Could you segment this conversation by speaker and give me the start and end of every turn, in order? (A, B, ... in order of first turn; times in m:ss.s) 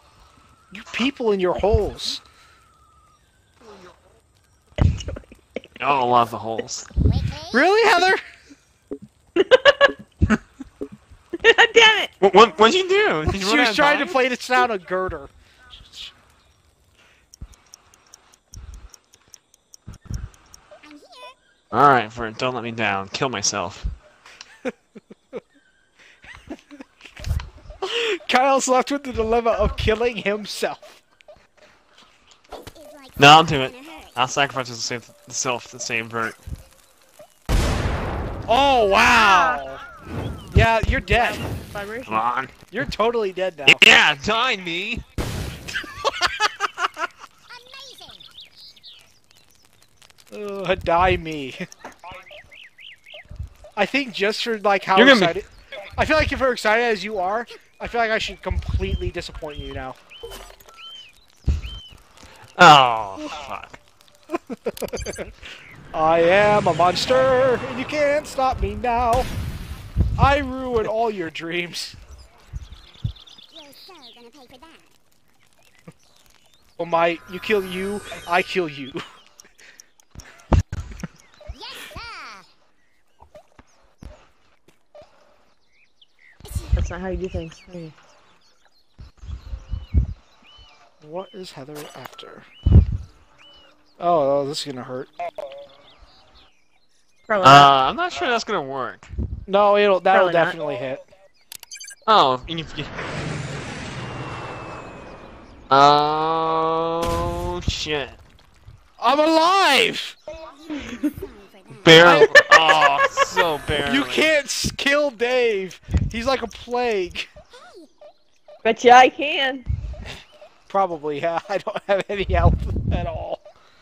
0:00.7-0:02.2 A
0:04.8-0:05.8 B
0:05.8-0:06.9 C
0:07.0-0:07.6 D
0:07.5-0:08.2 A
0:09.4-0:10.0 B
0:11.4-0:12.1 B
0:12.2-0:14.2 C
0:13.3-0:15.3 A
0:15.8-0:16.1 A
0:20.8-0:21.4 D
0:21.7-0:23.9 C
0:27.8-0:31.0 A
0:32.5-0:34.2 D
0:33.2-0:36.4 C
0:38.5-0:39.8 A
0:39.0-0:39.6 B
0:40.5-0:41.4 A
0:41.0-0:42.2 B
0:42.1-0:42.7 C
0:42.7-0:43.8 A
0:43.7-0:45.0 C
0:46.0-0:46.7 A
0:47.5-0:48.3 D
0:50.3-0:51.7 A
0:53.8-1:00.0 A
0:55.0-0:55.4 C
1:02.6-1:03.8 C
1:04.3-1:05.3 A
1:05.9-1:09.3 A
1:10.2-1:12.0 A
1:13.5-1:15.0 D
1:16.8-1:19.0 A
1:21.5-1:22.5 D
1:26.4-1:26.8 D
1:26.8-1:28.0 B
1:31.0-1:32.5 A
1:34.0-1:35.1 A
1:37.3-1:37.7 B
1:37.4-1:39.1 C
1:39.5-1:41.0 A
1:40.1-1:40.6 B
1:42.1-1:42.9 C
1:45.7-1:48.2 C
1:49.0-1:50.2 A
1:50.4-1:52.2 D
1:51.8-1:54.3 C
1:52.0-1:52.4 A
1:52.3-1:53.1 B
1:53.9-1:57.3 A
1:57.5-1:57.9 D
1:58.6-1:59.7 B
2:00.7-2:03.4 A